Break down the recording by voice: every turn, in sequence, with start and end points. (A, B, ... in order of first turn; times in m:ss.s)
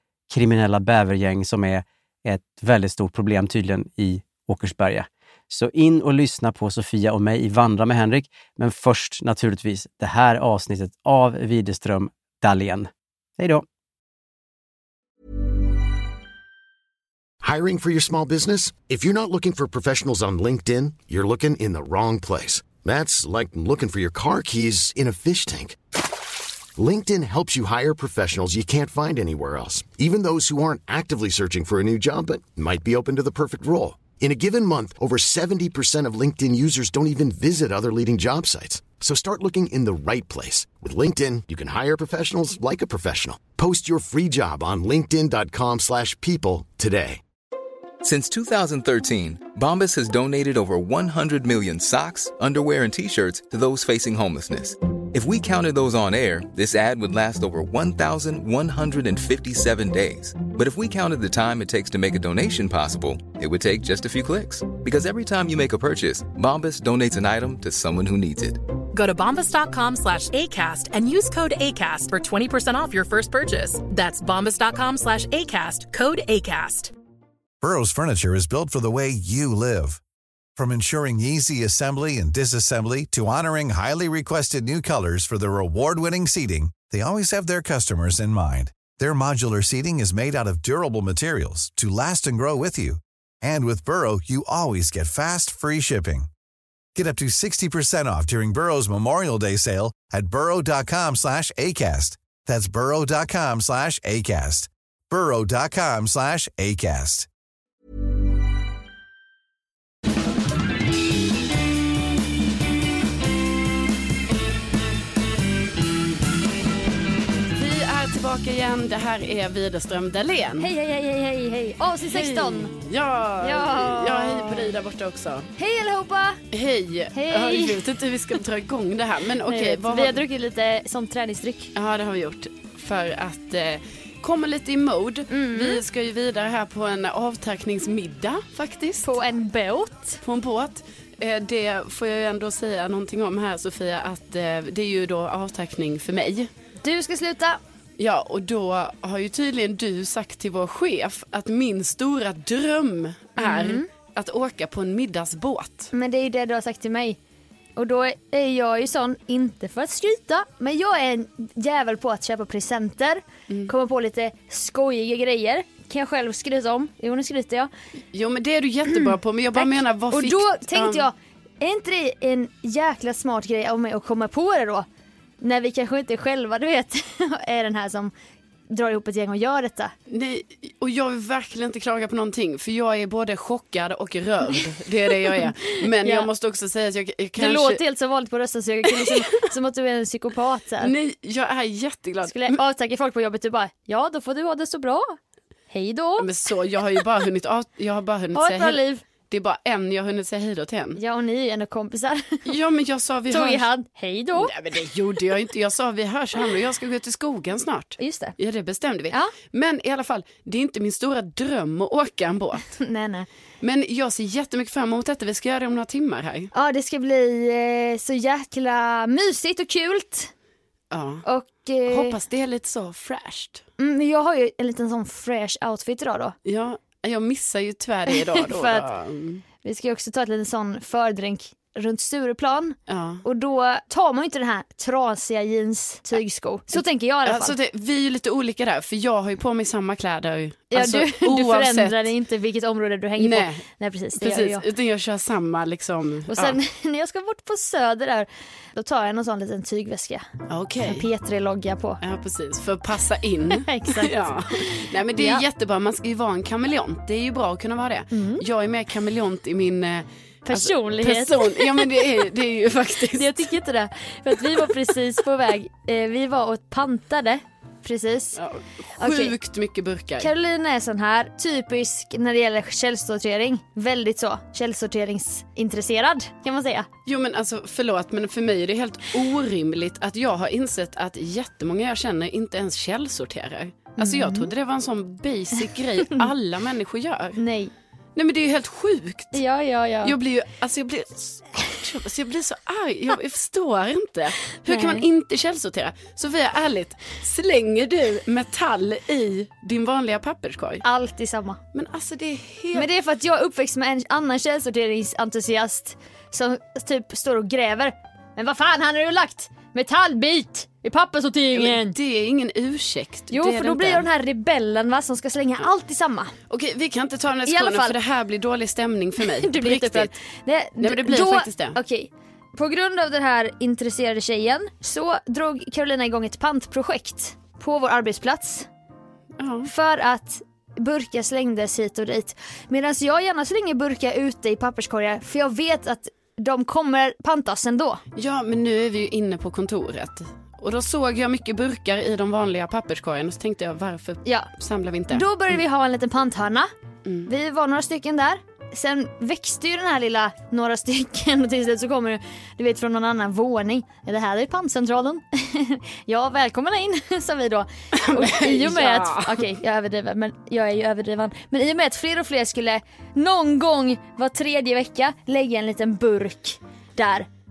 0:00.3-0:13.6 A
0:17.4-0:25.8 B
0:26.8-0:47.2 B
0:48.0-1:08.6 C
1:08.9-1:16.9 D
1:17.6-1:20.0 E
1:20.6-1:36.3 E
1:36.9-1:47.3 E
1:57.5-2:00.7 F
2:00.6-2:02.7 G
2:02.1-2:05.5 F
2:03.4-2:04.7 G
2:05.6-2:06.4 G
2:06.5-2:10.2 F
2:07.1-2:07.8 G
2:09.4-2:11.7 G
2:11.7-2:19.1 F
2:15.3-2:15.8 G
2:19.0-2:20.2 G
2:20.2-2:26.5 F
2:26.8-2:27.6 G
2:28.0-2:35.9 F
2:33.4-2:33.9 G
2:35.9-2:37.2 G
2:37.8-2:47.7 G
2:48.1-2:51.0 F
2:49.5-2:54.8 G
2:55.4-2:58.1 G
2:58.7-2:59.9 G
3:00.1-3:07.8 F
3:05.3-3:06.3 G
3:07.4-3:10.9 G
3:08.9-3:09.3 F
3:10.8-3:12.6 F
3:12.2-3:15.2 G
3:15.7-3:16.3 G
3:16.2-3:21.0 F
3:18.3-3:19.0 G
3:21.0-3:22.5 G
3:22.4-3:23.7 F
3:23.3-3:24.5 G
3:24.3-3:32.7 F
3:28.0-3:28.4 G
3:32.8-3:33.3 G
3:33.6-3:36.5 F
3:36.5-3:40.3 G
3:40.9-3:41.2 F
3:41.2-3:42.2 G
3:41.9-3:43.6 F
3:43.8-3:46.3 G
3:46.4-3:49.4 F
3:48.4-3:48.8 G
3:49.6-3:57.5 G
3:52.9-3:53.2 F
3:56.7-4:02.1 F
4:00.7-4:04.6 G
4:03.2-4:03.6 F
4:04.2-4:06.6 F
4:06.3-4:10.3 G
4:10.5-4:11.1 F
4:10.8-4:12.0 G
4:12.0-4:23.3 F
4:13.5-4:15.4 G
4:18.1-4:18.4 G
4:20.5-4:22.0 G
4:23.1-4:28.4 G
4:28.4-4:30.3 F
4:29.0-4:29.3 G
4:30.2-4:36.9 G
4:37.0-4:47.4 F
4:44.0-4:44.5 G
4:47.4-4:47.7 G
4:48.2-4:49.4 F
4:49.3-4:50.2 G
4:50.0-5:00.8 F
4:54.6-4:55.0 G
5:00.8-5:01.6 G
5:01.7-5:02.9 F
5:02.7-5:11.9 G
5:11.5-5:14.0 F
5:13.3-5:16.3 G
5:16.5-5:20.1 F
5:17.4-5:18.0 G
5:19.4-5:28.7 G
5:20.8-5:21.8 F
5:29.4-5:29.7 F
5:29.6-5:38.0 G
5:38.1-5:45.2 F
5:45.1-5:46.7 G
5:47.2-6:07.3 G
5:57.9-5:59.5 F